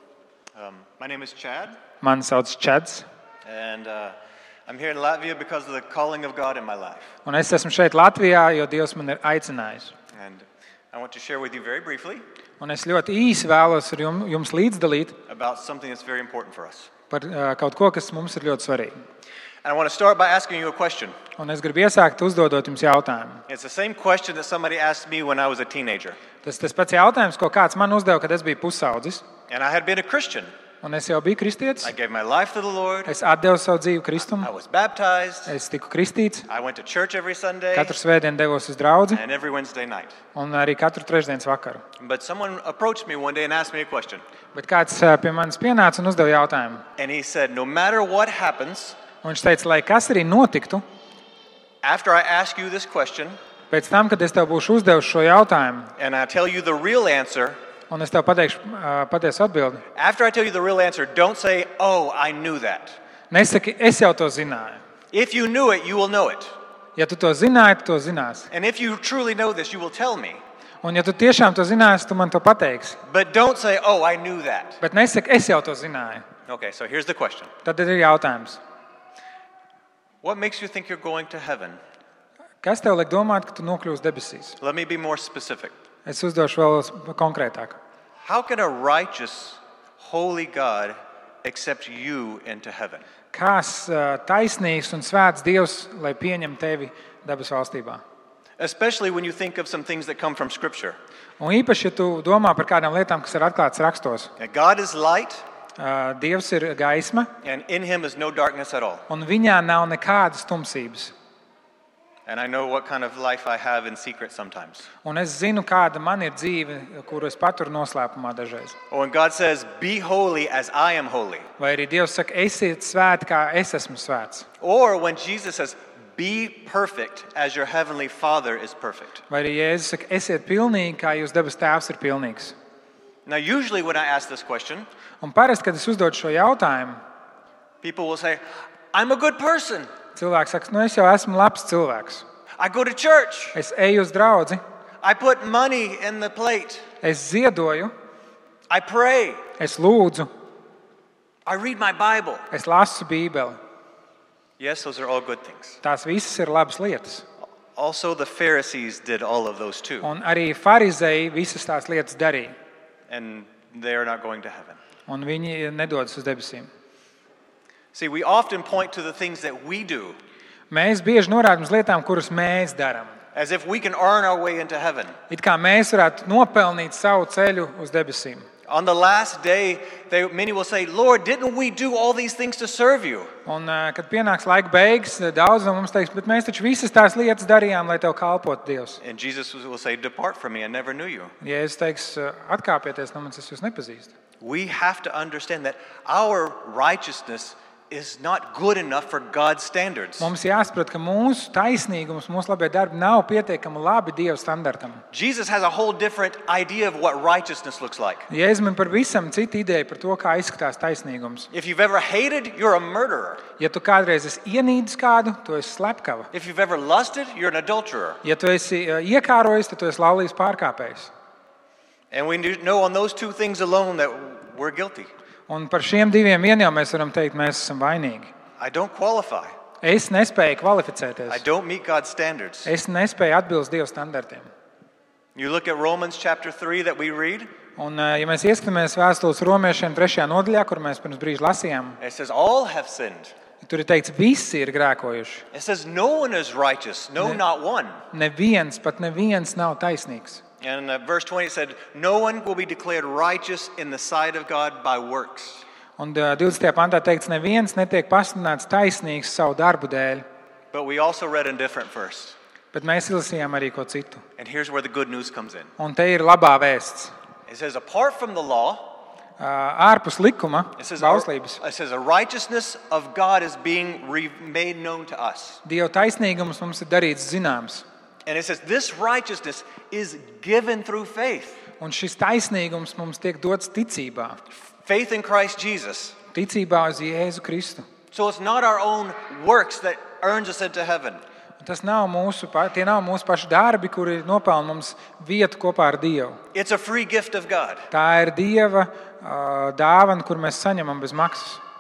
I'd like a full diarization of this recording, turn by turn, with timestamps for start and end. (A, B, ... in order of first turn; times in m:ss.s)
0:00.6-0:01.8 A
0:02.0-0:03.1 B
0:03.4-0:04.2 A
0:04.7-0:07.1 A
0:07.2-0:09.9 B
0:10.1-0:12.2 A
0:12.6-0:15.2 B
0:15.3-0:16.9 A
0:17.1-0:18.9 B
0:19.6-0:21.2 A
0:21.4-0:23.4 B
0:23.5-0:26.2 A
0:26.4-0:29.2 B
0:29.5-0:30.5 A
0:30.8-0:31.9 B
0:31.8-0:33.1 A
0:33.1-0:34.5 B
0:34.4-0:35.5 A
0:35.5-0:36.5 B
0:36.5-0:38.0 A
0:37.7-0:39.2 B
0:39.1-0:40.2 A
0:40.4-0:41.8 B
0:42.0-0:44.2 A
0:44.5-0:46.8 B
0:47.0-0:49.0 A
0:49.2-0:50.8 B
0:51.8-0:53.4 A
0:53.7-0:55.9 B
0:56.0-0:57.6 A
0:57.9-0:59.8 B
1:00.0-1:03.0 A
1:03.3-1:04.8 B
1:05.1-1:06.6 A
1:07.0-1:08.5 B
1:08.5-1:10.4 A
1:10.8-1:13.0 B
1:13.1-1:14.8 A
1:14.8-1:16.2 B
1:16.5-1:17.5 A
1:17.6-1:18.6 B
1:20.2-1:21.8 A
1:22.6-1:24.6 B
1:24.6-1:25.7 A
1:26.1-1:27.8 B
1:28.2-1:33.0 A
1:33.3-1:38.0 B
1:38.6-1:41.0 A
1:41.4-1:44.3 B
1:44.4-1:45.4 A
1:45.8-1:47.3 B
1:47.4-1:49.0 A
1:49.1-1:51.1 B
1:52.3-1:54.9 A
1:55.0-1:58.8 B
1:58.9-2:01.5 A
2:01.6-2:04.5 B
2:04.6-2:09.2 A
2:09.3-2:12.6 B
2:13.3-2:14.9 A
2:15.2-2:17.0 B
2:17.8-2:19.9 A
2:20.2-2:22.2 B
2:22.6-2:23.6 A
2:23.5-2:24.6 B
2:25.0-2:26.8 A
2:27.0-2:27.9 B
2:28.7-2:29.4 A
2:29.6-2:30.3 B
2:31.5-2:32.5 A
2:32.5-2:33.6 B
2:34.6-2:35.8 A
2:35.8-2:37.2 B
2:37.8-2:40.1 A
2:40.0-2:42.6 B
2:43.1-2:44.8 A
2:45.1-2:46.7 B
2:47.9-2:50.2 A
2:50.7-2:53.2 B
2:53.4-2:55.2 A
2:55.3-2:58.5 B
2:58.7-3:03.3 A
3:03.5-3:09.0 B
3:09.0-3:11.3 A
3:11.4-3:14.1 B
3:14.4-3:20.3 A
3:20.2-3:25.0 B
3:25.1-3:28.3 A
3:28.3-3:31.5 B
3:31.5-3:33.4 A
3:33.6-3:36.3 B
3:36.3-3:38.2 A
3:38.2-3:41.1 B
3:42.1-3:45.1 A
3:45.5-3:48.3 B
3:48.6-3:49.6 A
3:49.8-3:51.4 B
3:51.3-3:52.7 A
3:52.6-3:54.5 B
3:55.4-3:57.5 A
3:57.8-4:02.0 B
4:02.0-4:03.3 A
4:03.6-4:05.4 B
4:05.5-4:08.0 A
4:08.1-4:10.4 B
4:10.6-4:15.6 A
4:16.0-4:20.2 B
4:20.7-4:22.4 A
4:22.7-4:24.2 B
4:24.4-4:25.7 A
4:25.8-4:27.1 B
4:27.5-4:29.0 A
4:29.4-4:31.6 B
4:30.8-4:35.6 A
4:35.6-4:37.8 B
4:38.3-4:41.6 A
4:41.8-4:44.4 B
4:44.7-4:46.2 A
4:46.3-4:47.9 B
4:48.1-4:51.2 A
4:51.6-4:56.4 B
4:56.5-4:57.9 A
4:57.9-5:01.6 B